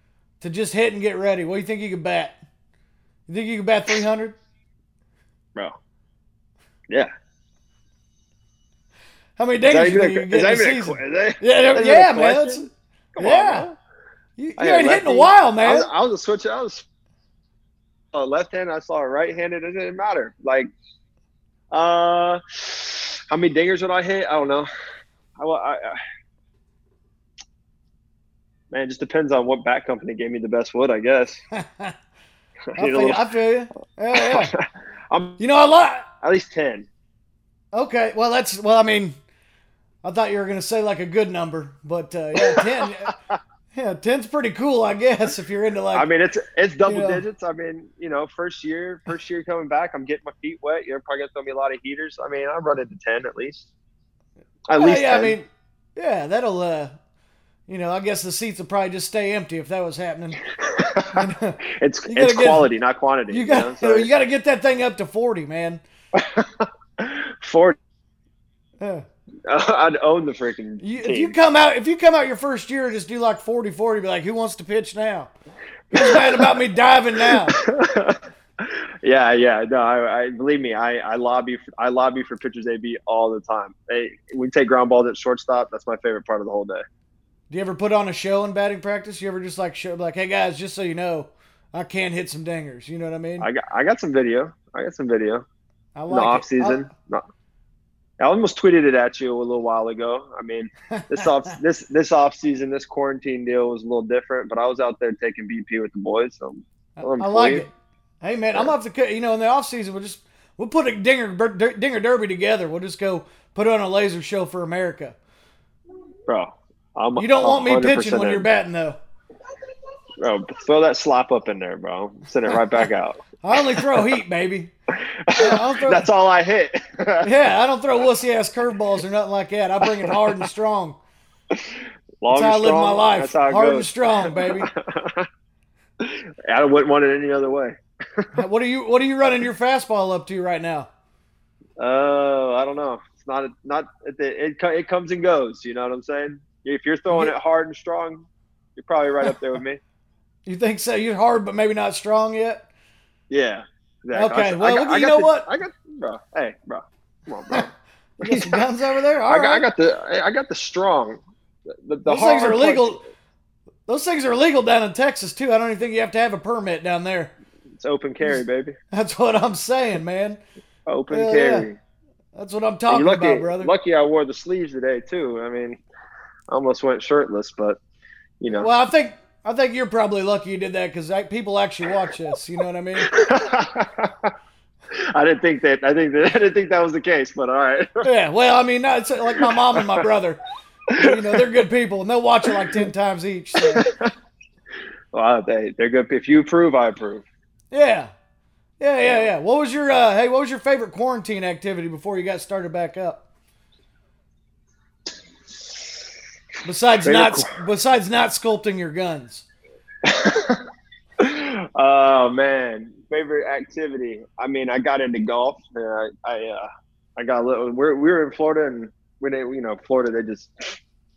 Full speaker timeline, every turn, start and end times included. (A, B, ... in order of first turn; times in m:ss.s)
0:00.4-0:02.4 A
0:03.3-0:04.4 A
0:09.4-0:13.7 A
0:09.7-0:13.7 B
0:14.4-0:15.9 A
0:14.6-0:16.8 B
0:18.1-0:20.7 B
0:21.7-0:24.7 B
0:25.4-0:26.0 B
0:28.7-0:31.4 B
0:31.5-0:31.9 A
0:32.7-0:33.2 B
0:32.8-0:34.5 A
0:34.1-0:35.4 B
0:35.4-0:36.0 A
0:36.2-0:36.9 B
0:37.7-0:39.2 A
0:40.0-0:43.1 A
0:42.4-0:43.4 B
0:43.7-0:46.1 A
0:45.9-0:53.7 B
0:46.9-0:47.2 A
0:54.7-0:55.4 B
0:54.7-0:56.9 A
0:57.7-1:00.4 A
1:00.6-1:01.2 B
1:01.1-1:02.7 A
1:01.8-1:04.1 B
1:03.3-1:05.8 A
1:06.1-1:07.8 B
1:09.5-1:11.4 B
1:10.8-1:15.3 A
1:15.9-1:17.5 A
1:15.9-1:16.5 B
1:17.2-1:26.8 B
1:27.5-1:33.5 A
1:33.4-1:35.4 B
1:36.0-1:36.8 A
1:36.1-1:37.2 B
1:38.2-1:47.6 B
1:41.0-1:41.2 A
1:47.0-1:47.7 A
1:48.2-1:55.2 A
1:56.3-1:58.5 B
1:57.2-1:59.0 A
2:00.2-2:04.1 B
2:03.4-2:04.7 A
2:05.0-2:07.3 B
2:05.4-2:06.1 A
2:07.2-2:11.0 A
2:09.8-2:10.2 B
2:11.5-2:15.3 B
2:12.3-2:14.7 A
2:16.0-2:18.3 B
2:18.3-2:20.9 A
2:21.8-2:29.8 B
2:30.4-2:32.6 A
2:33.3-2:37.7 B
2:34.1-2:35.5 A
2:38.2-2:39.6 A
2:38.2-2:38.7 B
2:39.3-2:41.2 B
2:41.8-2:43.0 B
2:42.0-2:43.0 A
2:43.9-2:47.3 A
2:47.8-2:48.8 B
2:48.9-2:50.4 A
2:50.9-2:51.8 B
2:51.1-2:51.7 A
2:52.3-2:53.7 A
2:52.9-2:55.8 B
2:56.5-2:57.8 B
2:58.4-2:58.7 B
2:58.6-3:03.1 A
3:03.0-3:04.3 B
3:05.1-3:08.1 B
3:08.0-3:10.4 A
3:09.4-3:09.8 B
3:11.0-3:11.4 B
3:11.0-3:13.9 A
3:12.5-3:12.8 B
3:13.6-3:14.1 B
3:15.1-3:17.2 B
3:17.7-3:18.1 A
3:18.8-3:23.2 A
3:19.0-3:19.3 B
3:26.6-3:29.4 A
3:27.0-3:27.5 B
3:30.0-3:30.6 B
3:31.2-3:40.8 B